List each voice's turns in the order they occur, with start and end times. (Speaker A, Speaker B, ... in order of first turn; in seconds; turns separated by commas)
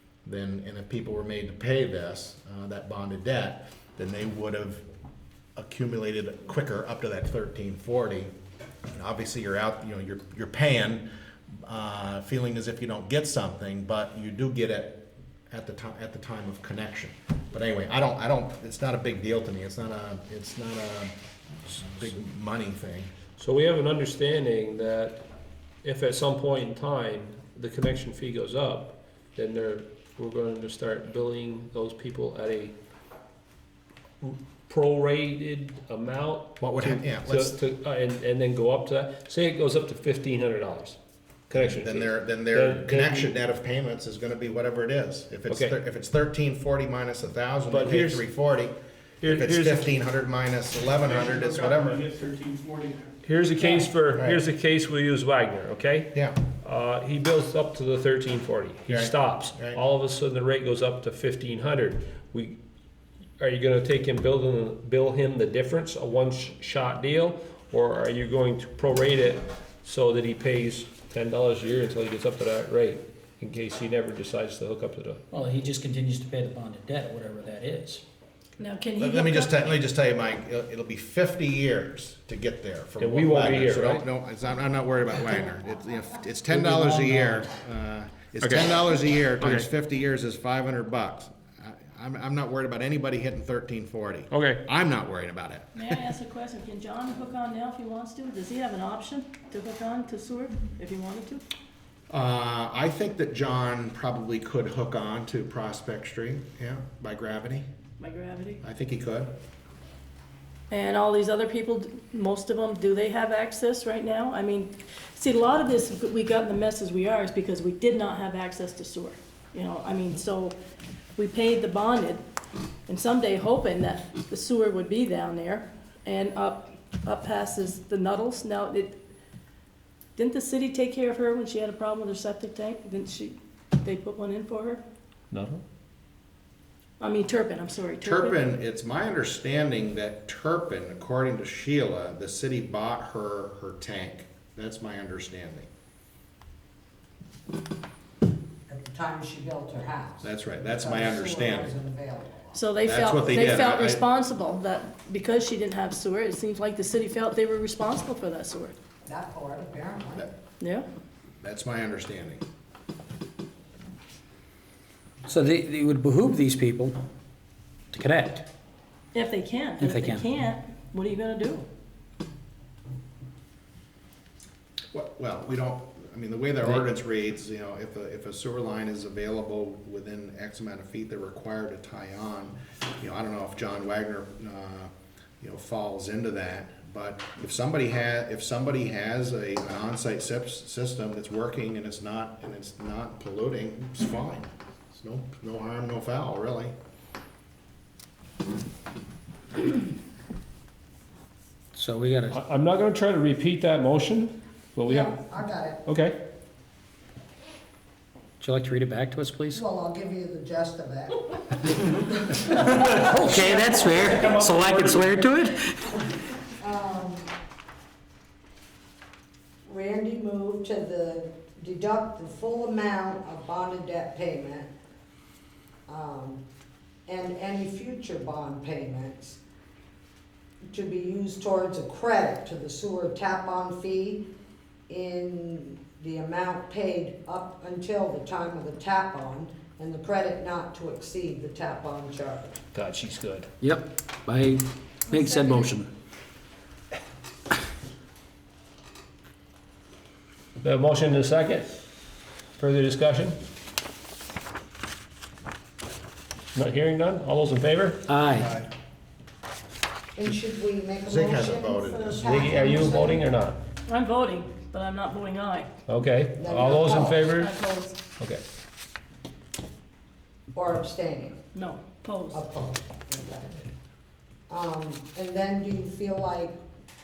Speaker A: 0.2-4.8, Speaker A: 5.6-8.3, Speaker A: 8.9-11.0, Speaker A: 11.6-21.1, Speaker A: 21.6-23.1, Speaker B: 23.4-25.2, Speaker B: 25.8-32.7, Speaker B: 34.2-41.0, Speaker A: 36.6-37.5, Speaker B: 41.5-43.3, Speaker A: 41.5-48.7, Speaker B: 45.5-45.7, Speaker B: 47.7-48.2, Speaker B: 49.2-49.9, Speaker A: 49.3-52.0, Speaker C: 51.1-53.1, Speaker B: 53.2-62.6, Speaker A: 54.1-54.4, Speaker A: 58.9-59.8, Speaker B: 63.4-75.2, Speaker D: 75.3-78.0, Speaker E: 78.6-79.7, Speaker A: 79.0-96.0, Speaker B: 83.0-84.0, Speaker D: 86.5-87.4, Speaker B: 88.4-88.7, Speaker B: 89.4-89.7, Speaker B: 94.3-94.6, Speaker E: 95.7-101.4, Speaker A: 102.1-107.7, Speaker E: 108.0-108.6, Speaker A: 108.6-109.3, Speaker E: 110.7-120.6, Speaker E: 121.2-122.2, Speaker E: 122.9-129.0, Speaker E: 130.2-134.8, Speaker B: 135.3-135.6, Speaker E: 137.0-138.4, Speaker A: 138.0-145.7, Speaker F: 148.7-152.6, Speaker A: 150.2-151.8, Speaker E: 152.5-158.8, Speaker A: 152.8-154.0, Speaker F: 159.1-160.3, Speaker E: 160.6-160.9, Speaker A: 161.4-162.4, Speaker D: 165.2-167.0, Speaker D: 167.9-168.5, Speaker E: 169.1-171.7, Speaker D: 169.8-170.3, Speaker A: 174.9-196.7, Speaker D: 201.7-202.4, Speaker B: 202.3-205.1, Speaker F: 204.8-205.8, Speaker B: 205.8-206.2, Speaker D: 208.4-209.6, Speaker F: 209.5-212.0, Speaker D: 212.4-216.0, Speaker B: 214.2-215.0, Speaker F: 216.6-217.3, Speaker F: 219.6-224.7, Speaker F: 225.9-226.4, Speaker F: 227.1-229.4, Speaker F: 230.7-234.2, Speaker F: 234.9-242.6, Speaker B: 242.7-243.5, Speaker D: 243.6-245.9, Speaker F: 245.1-245.7, Speaker B: 250.6-251.7, Speaker B: 252.6-253.4, Speaker B: 256.5-258.0, Speaker D: 258.1-258.5, Speaker A: 258.4-258.7, Speaker F: 260.1-263.2, Speaker A: 261.1-262.5, Speaker B: 262.2-263.6, Speaker E: 263.9-265.7, Speaker B: 265.9-267.5, Speaker F: 266.4-267.3, Speaker E: 266.8-268.0, Speaker F: 270.5-271.4, Speaker E: 271.5-272.4, Speaker F: 272.3-273.7, Speaker F: 274.5-276.6